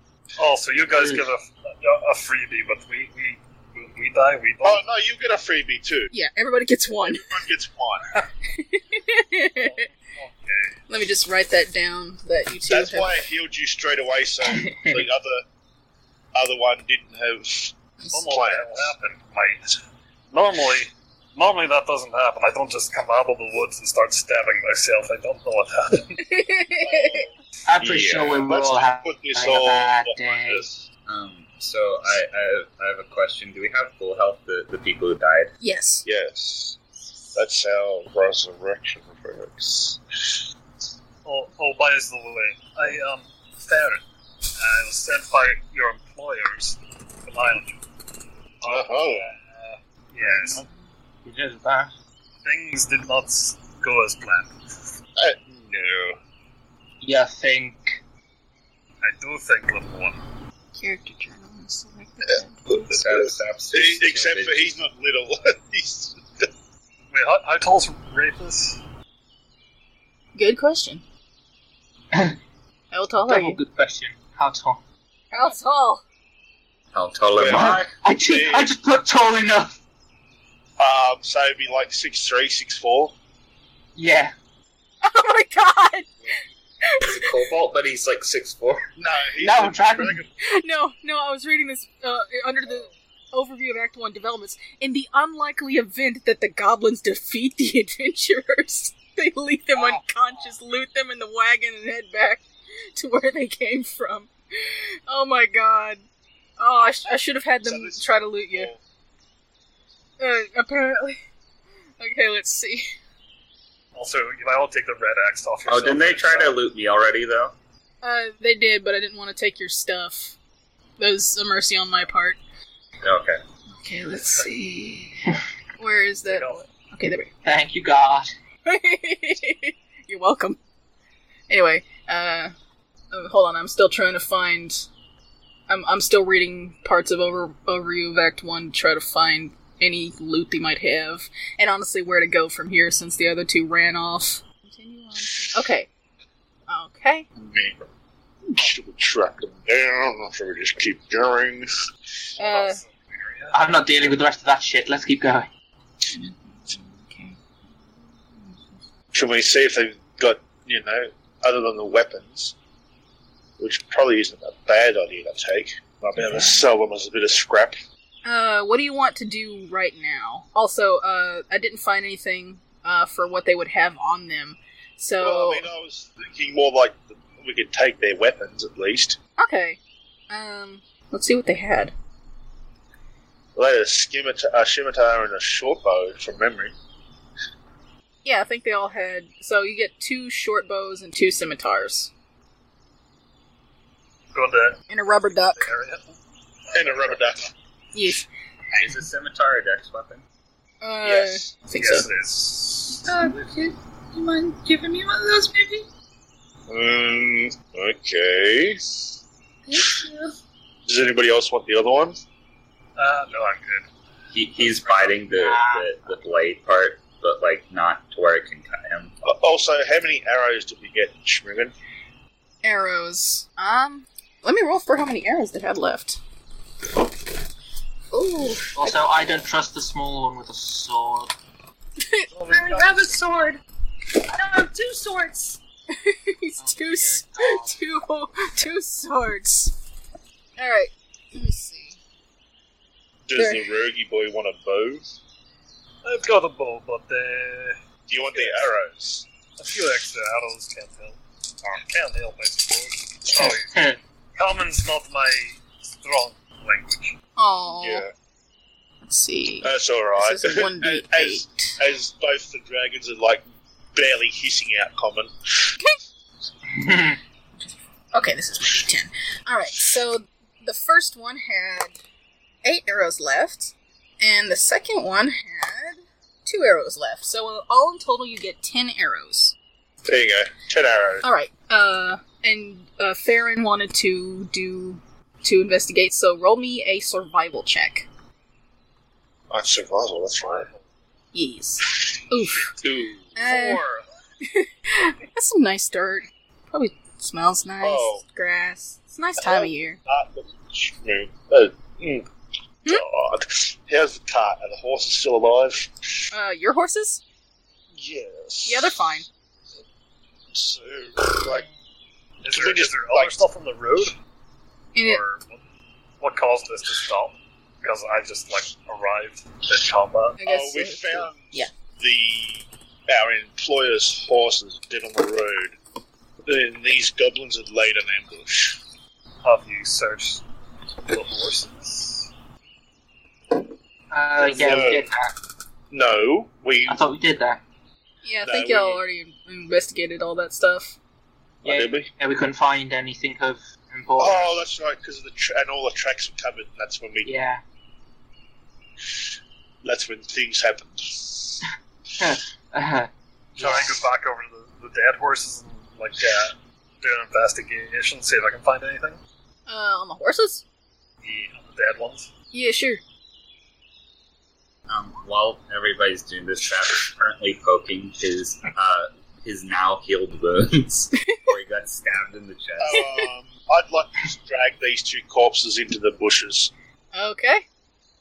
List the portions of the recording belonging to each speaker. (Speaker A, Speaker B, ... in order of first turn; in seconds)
Speaker A: 0.4-4.8, 9.6-10.8, 18.1-19.8, 20.3-26.2, 41.2-44.0, 44.6-47.8, 48.6-50.6, 52.4-54.5, 59.0-60.2, 67.1-68.8, 114.0-116.6, 126.3-126.7, 152.3-153.6, 194.3-196.2, 196.7-197.5, 201.7-203.4, 213.0-213.9, 214.6-215.1, 232.3-233.0, 246.0-247.8, 248.3-248.7, 249.6-253.8, 254.4-257.1, 290.4-290.8, 293.4-294.0, 312.4-314.1, 315.0-315.6, 316.2-320.4, 329.4-330.4, 331.1-332.3, 353.6-359.2, 361.2-362.3
Speaker B: 0.9-1.3, 14.7-15.1, 27.7-30.7, 50.2-50.6, 51.2-51.9, 57.0-58.0, 73.2-74.8, 77.5-79.8, 84.0-84.3, 89.4-90.2, 127.4-128.3, 153.5-155.5, 215.3-215.9, 228.7-231.3, 236.6-237.8, 253.3-254.0, 266.7-267.2, 334.1-335.4, 336.9-337.6, 341.6-344.6, 347.2-347.6, 352.2-354.0
Speaker C: 4.6-6.1, 7.0-8.1, 12.7-15.4, 16.4-18.9, 26.8-30.9, 36.0-36.8, 37.4-40.4, 48.6-49.3, 55.2-56.2, 62.9-66.5, 77.4-78.7, 80.8-83.2, 89.0-90.3, 107.6-108.8, 145.3-145.6, 147.4-147.8, 148.5-151.7, 159.1-162.5, 163.6-167.8, 175.2-179.2, 183.6-186.8, 196.7-197.5, 201.0-201.5, 206.7-208.8, 210.9-212.2, 219.2-221.7, 243.3-245.0, 248.1-249.3, 257.8-258.1, 259.6-265.7, 280.1-281.2, 289.5-290.7, 292.8-293.3, 297.8-298.2, 299.4-302.3, 302.9-306.2, 307.9-309.0, 310.5-311.7, 312.5-313.4, 320.4-325.8, 326.5-328.8, 334.4-335.1, 335.9-337.0, 338.4-339.0, 341.6-342.1, 344.2-347.3, 349.8-351.6, 372.8-376.7
Speaker D: 6.1-7.3, 8.5-9.9, 10.9-13.2, 26.2-27.3, 35.6-36.0, 60.8-63.0, 70.3-71.0, 72.9-73.6, 75.3-76.0, 85.0-86.1, 86.8-87.2, 90.4-102.4, 103.0-106.0, 106.6-108.7, 110.2-111.2, 112.0-112.9, 118.0-120.4, 121.0-122.4, 123.8-125.2, 125.8-127.3, 128.7-130.6, 131.5-132.5, 133.1-134.9, 135.7-145.9, 146.7-147.3, 152.4-152.8, 156.1-157.4, 166.3-166.6, 168.2-175.7, 179.4-179.8, 180.3-181.9, 188.2-192.1, 194.9-195.7, 197.9-198.3, 200.8-202.1, 222.6-226.2, 228.1-229.0, 232.0-232.3, 235.9-239.8, 240.6-242.0, 243.3-243.7, 257.4-258.1, 259.0-261.8, 267.6-272.0, 272.6-279.6, 281.2-288.1, 291.3-292.7, 293.4-293.8, 294.4-300.0, 306.3-307.2, 308.7-309.3, 314.9-315.2, 320.4-321.7, 338.2-341.0, 359.7-360.6, 362.5-363.0, 377.1-377.6
Speaker E: 27.8-28.4, 31.1-35.5, 62.9-64.8, 76.9-77.9, 87.0-88.8, 115.7-117.5, 123.0-123.4, 198.7-200.2, 214.3-219.1, 364.9-373.1
Speaker F: 203.1-205.9, 209.7-210.3, 232.5-233.6, 234.2-235.6